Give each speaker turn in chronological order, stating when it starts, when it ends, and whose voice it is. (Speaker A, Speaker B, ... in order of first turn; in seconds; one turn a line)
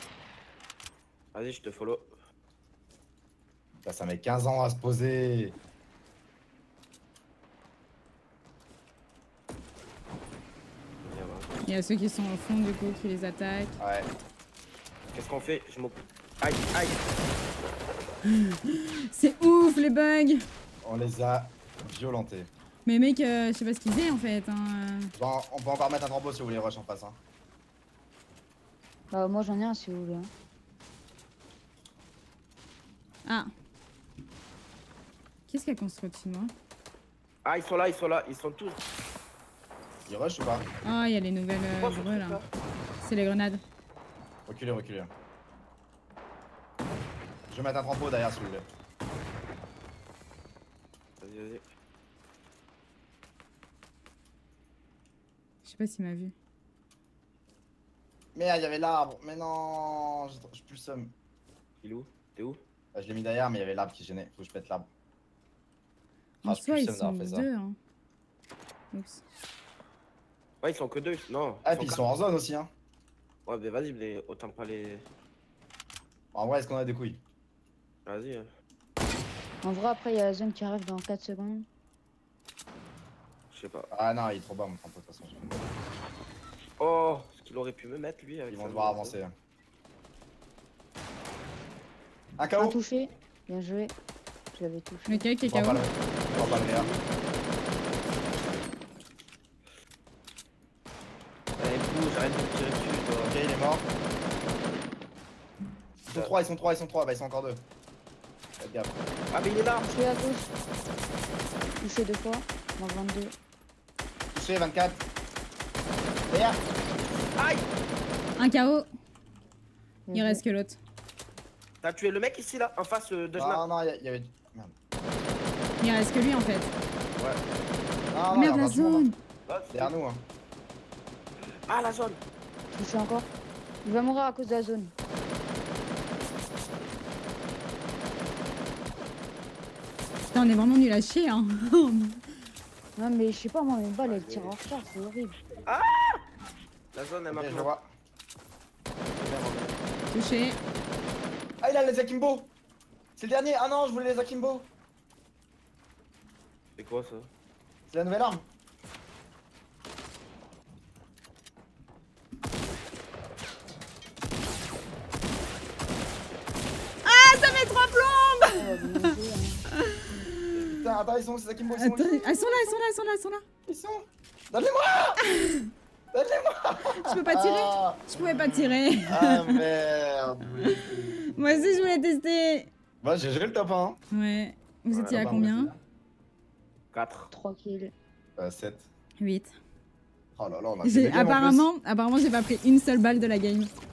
Speaker A: 1.3-2.1
Speaker B: 3.8-5.6
Speaker A: 11.0-11.7
Speaker C: 11.6-13.8
Speaker B: 13.8-14.1
Speaker A: 15.1-17.0
Speaker C: 18.3-20.4
Speaker B: 20.8-22.5
Speaker C: 22.9-25.1
Speaker B: 25.1-27.2
Speaker D: 29.1-30.3
Speaker C: 35.5-36.5
Speaker A: 37.4-38.8
Speaker B: 40.1-40.7
Speaker C: 40.8-42.4
Speaker A: 41.7-42.5
Speaker C: 43.0-43.6
Speaker B: 44.5-45.1
Speaker B: 47.5-48.7
Speaker A: 51.2-51.6
Speaker C: 55.6-56.3
Speaker B: 58.3-61.1
Speaker A: 61.8-62.6
Speaker B: 62.9-64.9
Speaker C: 66.4-67.8
Speaker B: 66.4-67.5
Speaker C: 68.9-69.2
Speaker A: 70.6-72.0
Speaker B: 71.6-72.7
Speaker A: 73.5-75.1
Speaker B: 76.3-77.2
Speaker A: 78.0-78.5
Speaker D: 79.6-81.7
Speaker A: 83.5-83.9
Speaker B: 83.9-85.7
Speaker A: 86.8-89.2
Speaker B: 88.5-89.3
Speaker B: 92.4-92.8
Speaker D: 92.6-93.9
Speaker D: 94.5-95.3
Speaker C: 95.1-95.8
Speaker B: 95.5-96.9
Speaker A: 96.3-97.0
Speaker A: 101.6-103.3
Speaker B: 103.2-103.9
Speaker A: 106.0-106.3
Speaker B: 106.1-107.6
Speaker B: 108.6-108.9
Speaker A: 109.3-109.9
Speaker D: 109.8-110.5
Speaker D: 111.8-113.3
Speaker B: 114.3-115.0
Speaker B: 116.3-116.6
Speaker A: 117.4-117.7
Speaker C: 118.4-118.9
Speaker D: 120.1-120.4
Speaker C: 120.1-120.8
Speaker A: 121.8-123.6
Speaker B: 123.3-125.3
Speaker C: 125.8-126.7
Speaker B: 128.1-129.1
Speaker C: 128.3-129.2
Speaker A: 129.5-129.9
Speaker B: 129.7-130.2
Speaker A: 131.7-132.2
Speaker D: 132.7-133.3
Speaker D: 133.8-134.9
Speaker C: 140.3-142.2
Speaker D: 142.9-145.4
Speaker A: 144.0-144.6
Speaker A: 145.6-146.2
Speaker A: 146.9-147.7
Speaker B: 147.3-147.9
Speaker A: 149.0-149.8
Speaker C: 150.1-150.6
Speaker B: 151.6-152.5
Speaker B: 153.2-154.7
Speaker A: 156.8-157.3
Speaker B: 157.9-158.5
Speaker C: 167.0-168.9
Speaker D: 168.5-169.6
Speaker C: 169.8-170.7
Speaker B: 170.7-172.8
Speaker C: 171.8-173.4
Speaker B: 173.7-175.2
Speaker C: 175.2-175.7
Speaker B: 176.1-181.9
Speaker C: 176.9-179.6
Speaker C: 180.6-182.7
Speaker B: 183.0-184.0
Speaker C: 184.1-185.7
Speaker A: 184.9-185.3
Speaker B: 185.1-185.8
Speaker A: 186.9-187.3
Speaker D: 187.3-187.9
Speaker B: 188.4-188.9
Speaker C: 189.2-189.5
Speaker B: 190.3-191.7
Speaker C: 190.8-193.7